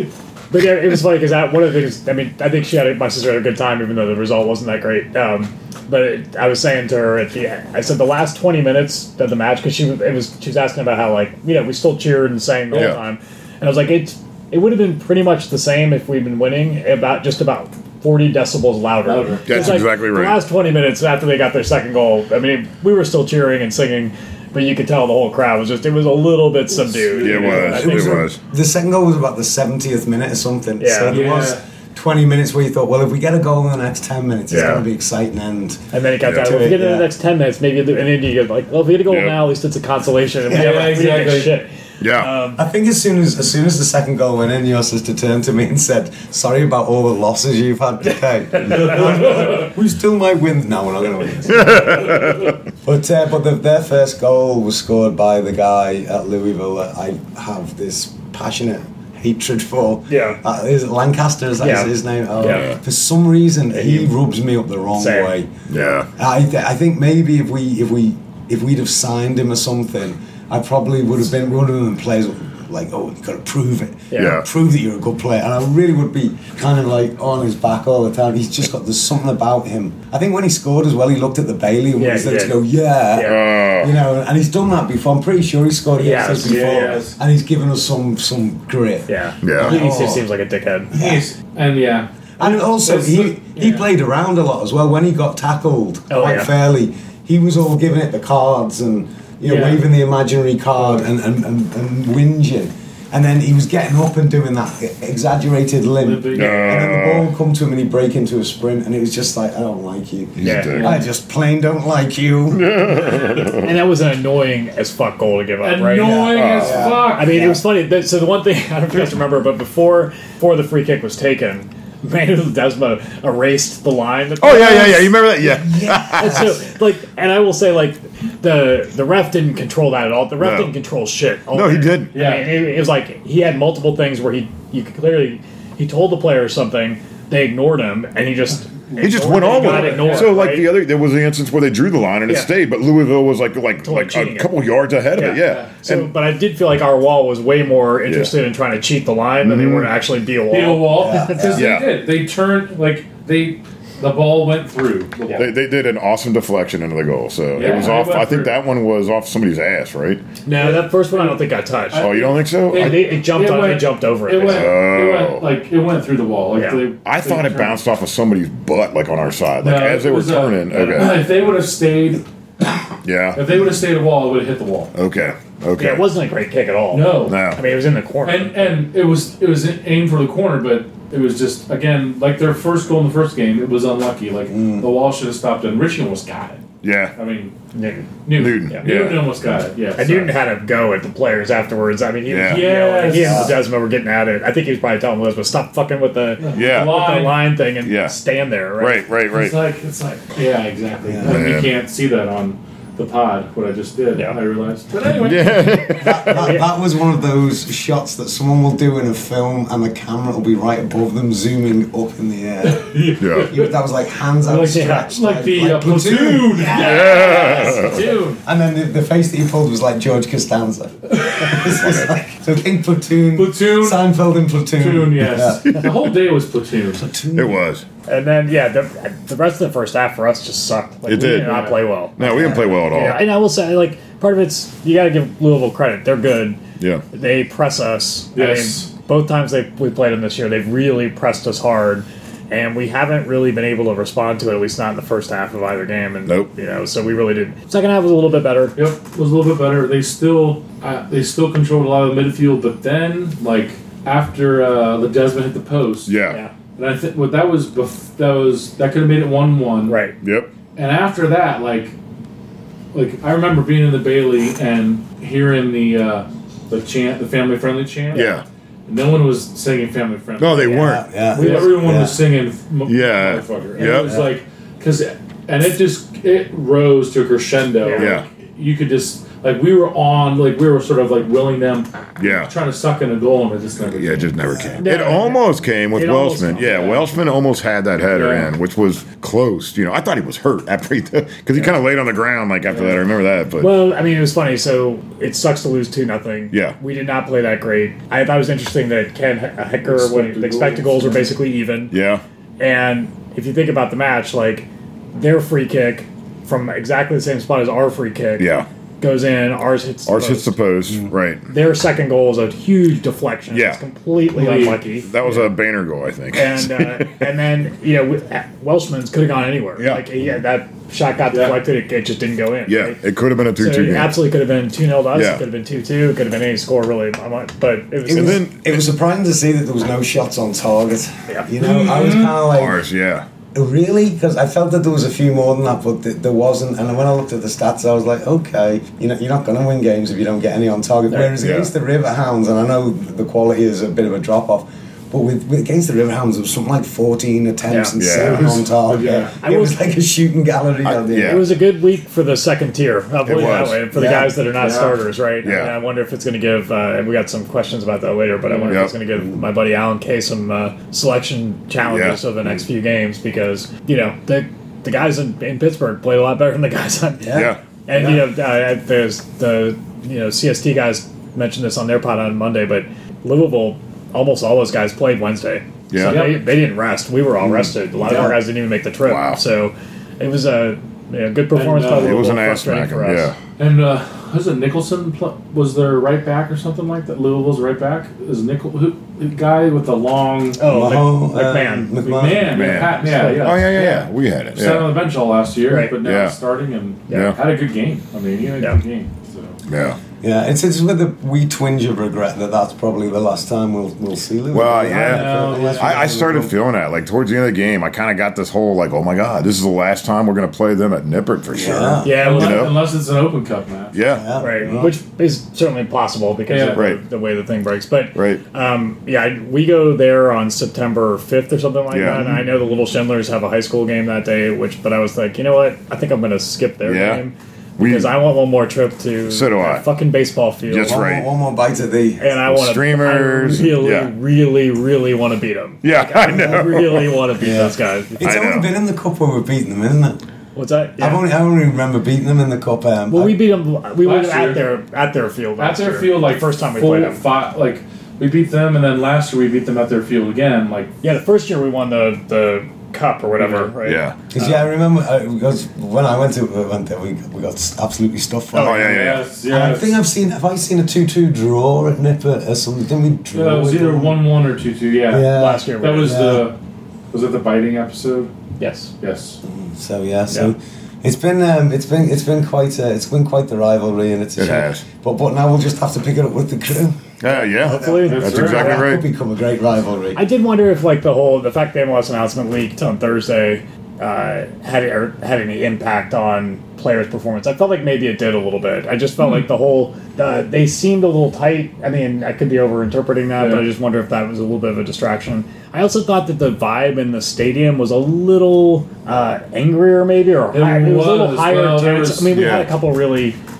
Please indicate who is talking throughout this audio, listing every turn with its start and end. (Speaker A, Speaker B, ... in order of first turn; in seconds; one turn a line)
Speaker A: 0.5-28.3
Speaker B: 12.7-13.0
Speaker C: 19.0-19.8
Speaker B: 19.4-20.4
Speaker C: 26.9-27.9
Speaker B: 27.2-28.4
Speaker D: 27.4-37.1
Speaker A: 30.8-31.2
Speaker C: 31.1-31.6
Speaker B: 34.5-34.8
Speaker A: 35.9-42.6
Speaker B: 36.2-36.7
Speaker B: 39.1-39.4
Speaker D: 40.5-41.0
Speaker C: 40.5-41.6
Speaker B: 42.0-42.3
Speaker D: 42.5-65.5
Speaker A: 48.6-49.2
Speaker C: 48.9-49.5
Speaker B: 51.5-52.5
Speaker A: 60.1-60.4
Speaker A: 61.6-62.7
Speaker B: 62.4-62.8
Speaker A: 63.7-64.1
Speaker A: 64.9-65.4
Speaker B: 65.7-66.1
Speaker D: 66.1-90.2
Speaker A: 74.1-74.4
Speaker B: 74.2-74.4
Speaker A: 82.0-82.6
Speaker A: 83.1-83.4
Speaker B: 83.2-83.9
Speaker A: 86.0-87.0
Speaker C: 86.4-87.2
Speaker A: 89.1-90.9
Speaker B: 89.4-89.8
Speaker D: 90.9-91.2
Speaker C: 90.9-93.8
Speaker D: 92.4-113.2
Speaker A: 96.1-96.5
Speaker C: 99.4-99.8
Speaker C: 106.0-106.9
Speaker B: 106.3-107.3
Speaker B: 110.4-111.0
Speaker A: 110.4-111.0
Speaker B: 112.5-113.7
Speaker A: 113.5-125.4
Speaker C: 115.6-117.3
Speaker D: 116.0-117.6
Speaker B: 116.3-116.8
Speaker B: 124.4-126.6
Speaker D: 125.4-126.6
Speaker A: 126.1-140.7
Speaker B: 130.4-130.7
Speaker B: 131.5-132.1
Speaker C: 132.1-132.5
Speaker C: 138.9-140.3
Speaker B: 139.0-146.1
Speaker A: 143.8-144.5
Speaker A: 145.1-151.5
Speaker C: 145.3-145.7
Speaker B: 148.1-148.3
Speaker B: 149.4-149.9
Speaker C: 150.5-155.5
Speaker D: 150.9-151.7
Speaker B: 151.5-152.0
Speaker B: 155.3-160.2
Speaker C: 157.5-158.6
Speaker A: 160.4-162.1
Speaker C: 160.6-167.8
Speaker B: 161.9-163.0
Speaker A: 162.7-164.7
Speaker B: 164.4-165.4
Speaker A: 166.5-166.8
Speaker B: 167.0-171.2
Speaker C: 169.6-172.2
Speaker B: 173.0-173.4
Speaker C: 173.3-174.9
Speaker B: 174.9-176.1
Speaker A: 175.8-178.8
Speaker C: 176.9-177.5
Speaker B: 177.2-177.6
Speaker C: 178.2-187.5
Speaker D: 184.5-184.9
Speaker B: 186.8-187.1
Speaker A: 187.7-188.1
Speaker C: 188.2-190.3
Speaker B: 188.3-189.4
Speaker A: 190.0-199.1
Speaker B: 192.2-192.7
Speaker C: 192.4-193.6
Speaker D: 193.1-193.5
Speaker C: 196.4-197.6
Speaker B: 196.5-197.0
Speaker B: 197.8-198.2
Speaker B: 198.8-199.6
Speaker C: 199.3-205.6
Speaker D: 201.0-201.3
Speaker B: 201.2-201.8
Speaker B: 205.0-206.6
Speaker D: 205.9-225.8
Speaker A: 206.3-206.6
Speaker C: 212.6-213.7
Speaker B: 213.2-213.6
Speaker C: 214.4-218.4
Speaker A: 214.6-215.1
Speaker B: 216.7-218.1
Speaker A: 216.9-217.8
Speaker C: 221.1-221.7
Speaker B: 221.6-222.2
Speaker C: 223.3-224.1
Speaker C: 224.8-227.1
Speaker B: 225.6-226.0
Speaker D: 226.9-227.6
Speaker B: 227.3-227.8
Speaker A: 228.1-236.6
Speaker B: 231.1-233.2
Speaker C: 231.2-231.8
Speaker D: 232.2-232.7
Speaker A: 237.1-248.8
Speaker C: 238.3-238.9
Speaker B: 246.2-246.5
Speaker C: 248.8-256.1
Speaker B: 256.1-256.4
Speaker C: 256.8-260.0
Speaker A: 259.9-260.1
Speaker B: 260.2-260.5
Speaker C: 260.8-261.9
Speaker C: 262.9-284.7
Speaker B: 268.1-268.4
Speaker B: 270.4-271.0
Speaker D: 270.7-272.2
Speaker A: 271.3-271.9
Speaker B: 272.9-274.2
Speaker A: 277.8-278.2
Speaker B: 277.9-278.3
Speaker B: 282.2-282.5
Speaker B: 283.9-293.7
Speaker A: 284.8-287.0
Speaker C: 286.6-287.0
Speaker C: 288.1-288.5
Speaker C: 292.7-293.1
Speaker A: 293.6-301.9
Speaker B: 296.5-296.8
Speaker C: 299.8-301.4
Speaker B: 301.9-302.2
Speaker A: 302.6-308.5
Speaker B: 308.4-308.7
Speaker A: 309.0-310.5
Speaker B: 310.1-311.4
Speaker A: 311.5-315.5
Speaker B: 313.5-313.8
Speaker C: 314.3-314.8
Speaker B: 315.0-317.2
Speaker A: 316.3-323.0
Speaker B: 319.8-320.0
Speaker C: 321.3-321.6
Speaker B: 322.7-324.1
Speaker A: 323.6-328.4
Speaker B: 325.1-325.4
Speaker D: 328.1-332.8
Speaker B: 328.1-328.9
Speaker C: 331.6-332.5
Speaker B: 332.5-333.3
Speaker D: 333.5-351.5
Speaker B: 341.4-341.7
Speaker A: 347.7-347.9
Speaker B: 348.0-348.6
Speaker C: 348.2-349.3
Speaker A: 349.4-349.8
Speaker B: 350.8-351.5
Speaker A: 351.2-383.3
Speaker B: 353.2-353.8
Speaker D: 353.9-354.4
Speaker C: 354.6-355.0
Speaker B: 355.4-355.8
Speaker C: 358.5-358.8
Speaker B: 358.7-358.9
Speaker D: 359.2-359.4
Speaker B: 361.8-362.2
Speaker D: 367.2-368.2
Speaker B: 367.3-367.6
Speaker B: 375.9-376.4
Speaker C: 376.1-376.4
Speaker C: 378.1-378.3
Speaker B: 379.0-379.4
Speaker C: 381.5-382.2
Speaker B: 381.9-383.4
Speaker C: 383.6-390.6
Speaker A: 390.6-393.8
Speaker D: 390.6-392.6
Speaker C: 392.0-399.6
Speaker B: 392.5-395.0
Speaker A: 395.7-395.9
Speaker B: 396.0-396.4
Speaker A: 397.1-397.3
Speaker B: 397.1-397.4
Speaker B: 399.7-400.0
Speaker D: 400.2-406.5
Speaker B: 404.5-412.7
Speaker C: 404.9-406.0
Speaker D: 411.5-412.3
Speaker A: 412.0-412.7
Speaker C: 412.0-413.9
Speaker B: 413.9-414.9
Speaker D: 414.1-414.9
Speaker A: 414.4-431.1
Speaker C: 416.5-416.8
Speaker B: 416.7-417.0
Speaker B: 418.1-418.4
Speaker B: 421.9-422.2
Speaker D: 422.1-422.4
Speaker B: 426.8-427.2
Speaker B: 427.8-428.1
Speaker B: 429.3-429.8
Speaker B: 430.7-431.3
Speaker D: 430.8-432.3
Speaker A: 432.2-438.3
Speaker B: 432.4-434.1
Speaker B: 435.8-437.2
Speaker D: 436.2-436.6
Speaker D: 437.4-440.2
Speaker B: 438.2-438.7
Speaker A: 440.5-441.2
Speaker D: 441.0-443.4
Speaker A: 443.1-447.2
Speaker C: 444.0-444.6
Speaker C: 445.6-450.9
Speaker A: 451.0-454.5
Speaker C: 453.4-453.7
Speaker B: 453.8-454.2
Speaker D: 454.3-464.2
Speaker B: 458.5-459.2
Speaker A: 458.6-458.9
Speaker C: 458.6-460.0
Speaker C: 463.3-466.5
Speaker D: 465.1-466.4
Speaker A: 465.3-466.2
Speaker C: 467.1-468.3
Speaker A: 468.6-468.9
Speaker C: 469.0-469.4
Speaker D: 469.4-477.0
Speaker B: 474.4-474.8
Speaker B: 477.2-479.0
Speaker A: 477.4-478.8
Speaker C: 477.7-478.9
Speaker D: 478.3-480.2
Speaker A: 480.1-503.4
Speaker C: 493.4-493.7
Speaker C: 500.5-502.3
Speaker B: 502.3-502.7